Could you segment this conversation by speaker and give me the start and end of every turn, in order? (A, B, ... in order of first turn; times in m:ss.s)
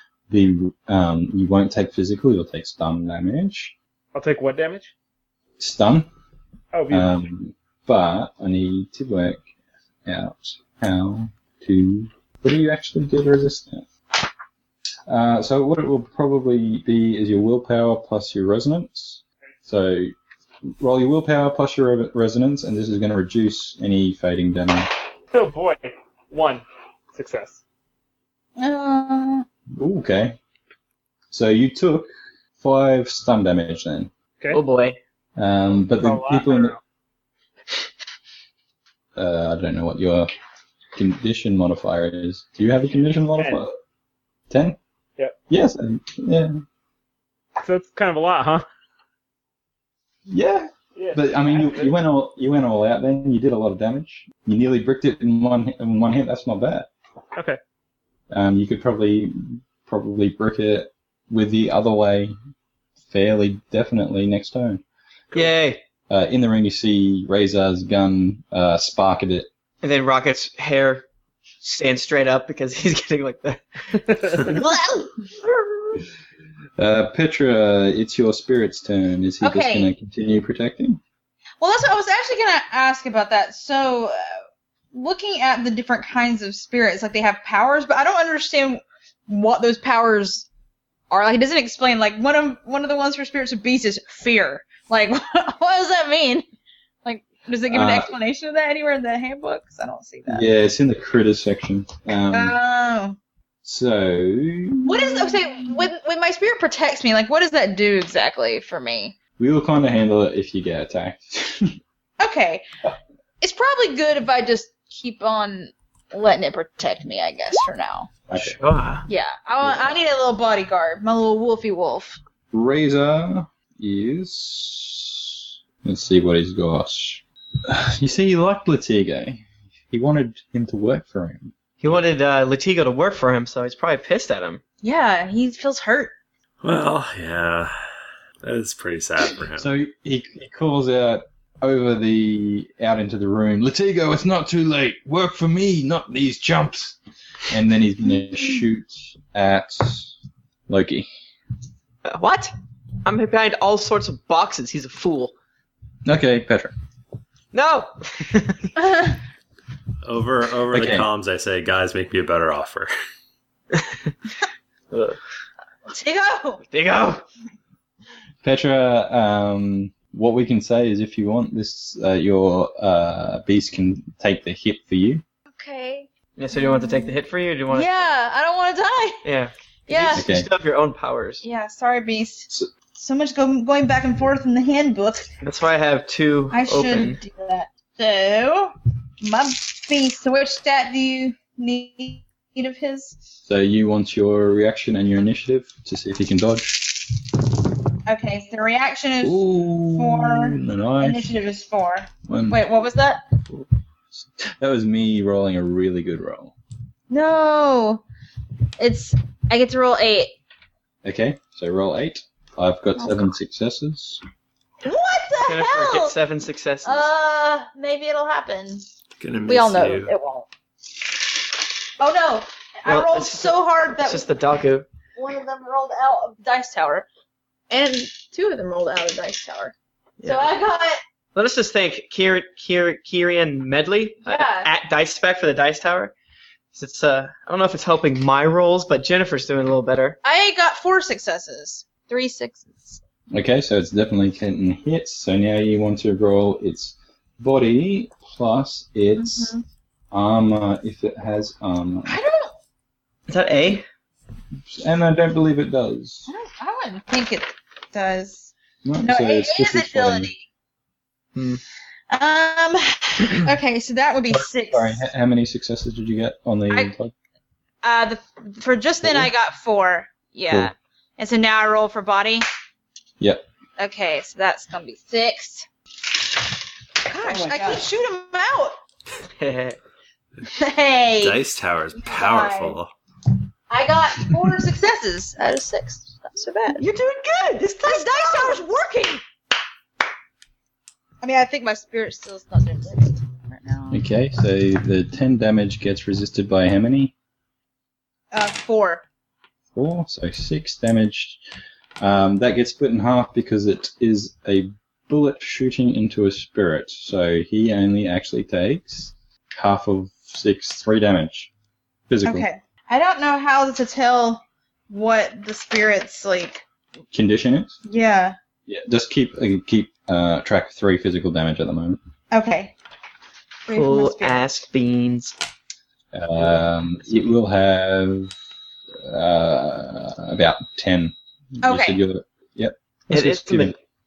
0:00.3-0:03.8 A
0:04.1-0:04.9 B
0:05.6-0:06.1 A
0:06.7-0:07.2 B
0:06.9-0:09.4 A
0:10.0-0:13.8 A
0:15.1-0:20.1 A
0:20.8-0:24.9 A
0:25.3-0:27.6 B
0:28.6-0:29.5 C
0:29.8-0:30.4 A
0:31.3-0:34.1 A
0:34.5-0:35.0 D
0:35.4-0:36.8 A
0:35.9-0:36.8 B
0:39.2-0:40.3 A
0:40.9-0:43.8 A
0:43.4-0:43.6 B
0:44.5-0:44.8 A
0:45.5-0:46.6 A
0:47.6-0:48.6 B
0:50.3-0:56.9 A
0:51.0-0:51.9 B
0:58.3-1:02.4 A
1:03.1-1:04.8 A
1:05.3-1:05.8 D
1:06.1-1:09.5 A
1:09.8-1:11.1 D
1:11.6-1:14.6 D
1:14.4-1:15.3 C
1:16.8-1:21.0 A
1:19.4-1:19.9 C
1:21.6-1:24.2 C
1:24.9-1:30.5 C
1:31.1-1:36.4 C
1:37.0-1:40.4 C
1:37.7-1:38.1 A
1:40.3-1:42.6 A
1:42.3-1:43.2 C
1:43.6-1:45.9 A
1:44.8-1:49.2 C
1:49.4-1:51.8 A
1:52.2-1:52.6 C
1:53.4-1:58.1 C
1:58.3-1:58.6 A
1:58.3-1:59.1 D
1:59.1-2:02.2 C
1:59.6-1:59.9 A
2:02.5-2:11.5 A
2:11.8-2:14.6 D
2:14.8-2:16.1 C
2:16.6-2:17.7 E
2:18.4-2:19.7 E
2:19.6-2:27.0 A
2:27.5-2:30.1 A
2:30.7-2:31.1 A
2:32.0-2:32.5 D
2:33.0-2:35.3 D
2:36.0-2:36.7 A
2:37.5-2:38.8 D
2:38.8-2:39.2 C
2:40.0-2:42.9 E
2:40.7-2:41.1 A
2:43.7-2:44.1 D
2:44.9-2:45.2 D
2:45.9-2:46.6 C
2:46.7-2:47.2 D
2:48.4-2:55.2 A
2:55.5-2:57.2 C
2:56.4-2:58.1 D
2:57.7-2:59.2 C
2:59.2-3:01.4 D
2:59.9-3:00.3 C
3:00.1-3:00.5 A
3:01.4-3:05.3 C
3:05.4-3:07.2 D
3:06.5-3:13.2 C
3:13.4-3:17.1 A
3:18.1-3:23.2 C
3:19.2-3:21.3 A
3:22.3-3:22.6 A
3:23.5-3:26.5 A
3:27.1-3:28.0 C
3:28.8-3:30.4 C
3:31.0-3:34.2 A
3:33.0-3:33.3 C
3:34.8-3:36.2 C
3:35.4-3:37.1 D
3:36.8-3:38.9 C
3:39.2-3:40.1 E
3:39.5-3:40.5 C
3:42.0-3:44.2 C
3:42.9-3:44.9 D
3:45.2-3:47.1 C
3:47.7-3:51.0 C
3:50.2-3:50.5 D
3:51.4-3:56.1 D
3:54.3-3:54.7 C
3:56.7-4:00.2 D
4:00.2-4:03.0 C
4:03.3-4:09.5 A
4:09.2-4:09.6 C
4:10.1-4:12.2 A
4:12.1-4:12.5 C
4:13.3-4:13.8 D
4:14.7-4:16.3 A
4:16.3-4:18.5 C
4:18.8-4:20.3 A
4:19.0-4:20.4 C
4:21.4-4:21.6 D
4:22.1-4:25.0 C
4:24.3-4:27.1 A
4:27.8-4:32.4 C
4:29.0-4:29.3 A
4:33.2-4:33.4 A
4:33.8-4:35.7 C
4:37.1-4:38.8 C
4:37.1-4:37.9 D
4:39.4-4:39.8 D
4:40.4-4:41.4 C
4:41.2-4:42.9 E
4:42.0-4:42.8 C
4:43.7-4:46.8 C
4:46.8-4:48.6 D
4:47.8-4:49.2 C
4:51.2-4:54.0 C
4:53.9-4:57.1 A
4:58.3-4:59.0 C
4:59.7-5:01.4 A
5:02.0-5:11.5 A
5:12.1-5:12.5 A
5:12.2-5:16.6 C
5:17.1-5:17.8 A
5:17.8-5:18.4 C
5:18.7-5:22.0 A
5:22.3-5:22.7 C
5:23.6-5:24.4 C
5:23.7-5:25.3 D
5:26.1-5:28.4 A
5:29.0-5:33.8 A
5:31.6-5:32.0 C
5:33.1-5:33.8 D